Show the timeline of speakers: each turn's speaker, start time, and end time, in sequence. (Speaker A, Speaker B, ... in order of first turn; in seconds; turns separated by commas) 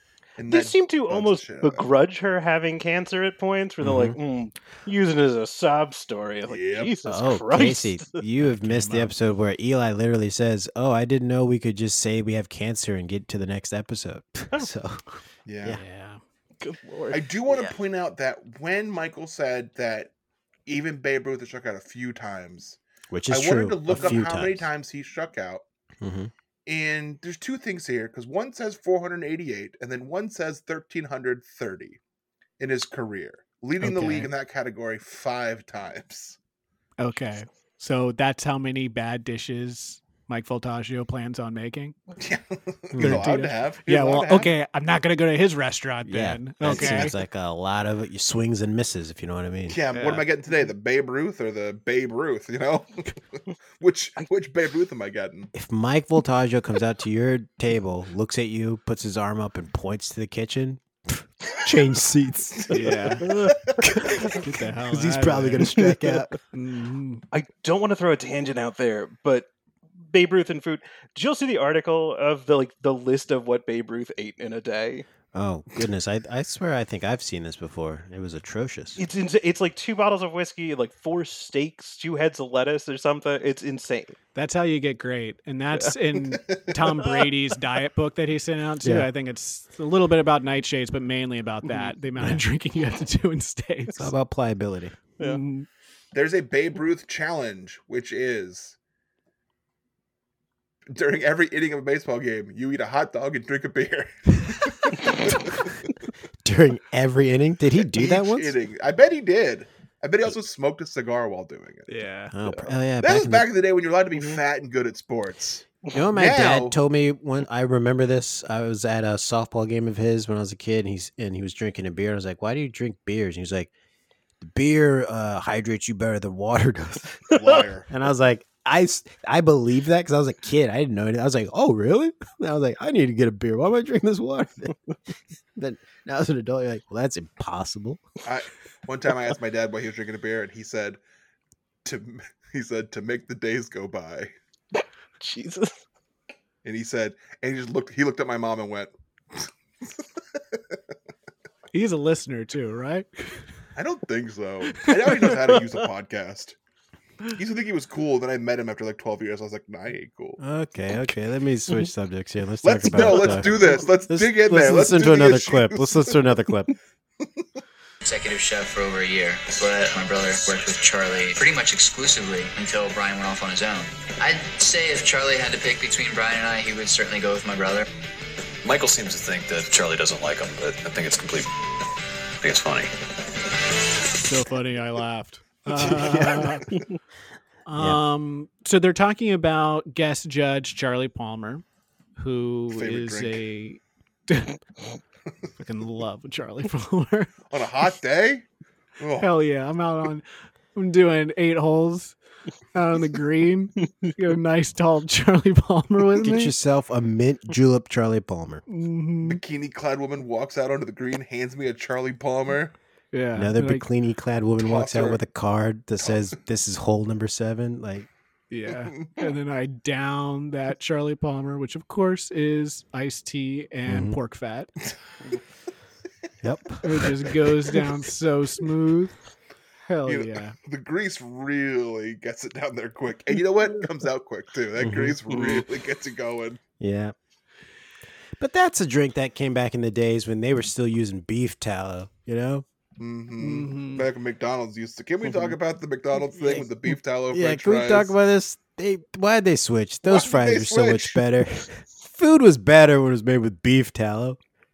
Speaker A: 0.4-1.9, Speaker B: 0.4-8.2, Speaker C: 3.8-4.2, Speaker A: 6.5-6.9, Speaker C: 7.0-15.0, Speaker D: 8.4-9.2, Speaker A: 15.4-15.8, Speaker D: 15.7-16.2, Speaker B: 16.6-17.7, Speaker A: 17.1-20.1, Speaker A: 20.6-25.6, Speaker C: 23.1-24.7, Speaker C: 26.0-26.3, Speaker A: 26.6-32.0, Speaker A: 32.6-36.4, Speaker D: 33.8-34.3, Speaker D: 37.0-41.9, Speaker A: 42.2-44.5, Speaker C: 42.9-43.2, Speaker D: 43.0-47.1, Speaker C: 46.0-49.8, Speaker A: 49.7-53.1, Speaker D: 49.9-50.2, Speaker A: 53.8-55.5, Speaker C: 55.5-62.7, Speaker A: 62.6-63.1, Speaker D: 62.7-63.2, Speaker B: 63.3-63.5, Speaker C: 63.8-64.3, Speaker D: 64.4-65.8, Speaker C: 64.9-66.3, Speaker B: 65.8-66.2, Speaker D: 66.5-67.2, Speaker B: 67.3-69.5, Speaker B: 70.0-75.0, Speaker C: 75.3-79.0, Speaker B: 79.0-84.2, Speaker D: 84.3-94.1, Speaker A: 86.4-86.7, Speaker C: 88.8-89.1, Speaker C: 92.2-92.4, Speaker C: 94.0-95.0, Speaker D: 95.2-95.7, Speaker A: 96.1-98.7, Speaker A: 100.9-105.8, Speaker C: 106.4-108.6, Speaker A: 107.8-111.9, Speaker D: 111.9-112.3, Speaker C: 112.3-113.5, Speaker A: 112.5-116.8, Speaker B: 114.1-114.4, Speaker C: 115.9-123.7, Speaker C: 124.4-127.2, Speaker A: 127.3-127.9, Speaker C: 127.9-134.7, Speaker C: 135.6-138.0, Speaker A: 138.2-141.0, Speaker A: 141.8-144.3, Speaker B: 145.2-145.8, Speaker A: 146.6-149.5, Speaker D: 151.7-153.4, Speaker A: 153.8-156.6, Speaker D: 154.9-155.2, Speaker A: 157.3-160.4, Speaker C: 160.4-166.7, Speaker A: 162.6-166.2, Speaker A: 167.2-167.5, Speaker E: 168.0-177.8, Speaker F: 178.6-181.5, Speaker F: 182.4-182.9, Speaker D: 184.2-186.7, Speaker A: 185.8-186.6, Speaker D: 187.7-191.6, Speaker D: 192.2-194.6, Speaker A: 192.7-193.4, Speaker D: 195.6-197.3, Speaker A: 197.5-198.4, Speaker A: 199.0-199.3, Speaker D: 199.2-202.2, Speaker D: 202.7-206.5, Speaker C: 206.2-208.6, Speaker D: 208.7-209.4, Speaker A: 209.2-212.7, Speaker D: 213.1-213.8, Speaker C: 213.3-218.1, Speaker A: 214.6-215.2, Speaker A: 216.0-216.3, Speaker D: 218.5-224.7, Speaker C: 223.9-224.2, Speaker C: 226.4-227.1, Speaker D: 226.8-229.2, Speaker D: 229.8-230.5, Speaker A: 230.1-236.6, Speaker C: 234.8-235.2, Speaker B: 235.3-235.6, Speaker C: 236.8-237.1, Speaker C: 238.4-242.6, Speaker A: 243.0-248.1, Speaker D: 243.4-244.1, Speaker B: 246.4-246.6, Speaker C: 247.3-254.4, Speaker A: 250.0-251.2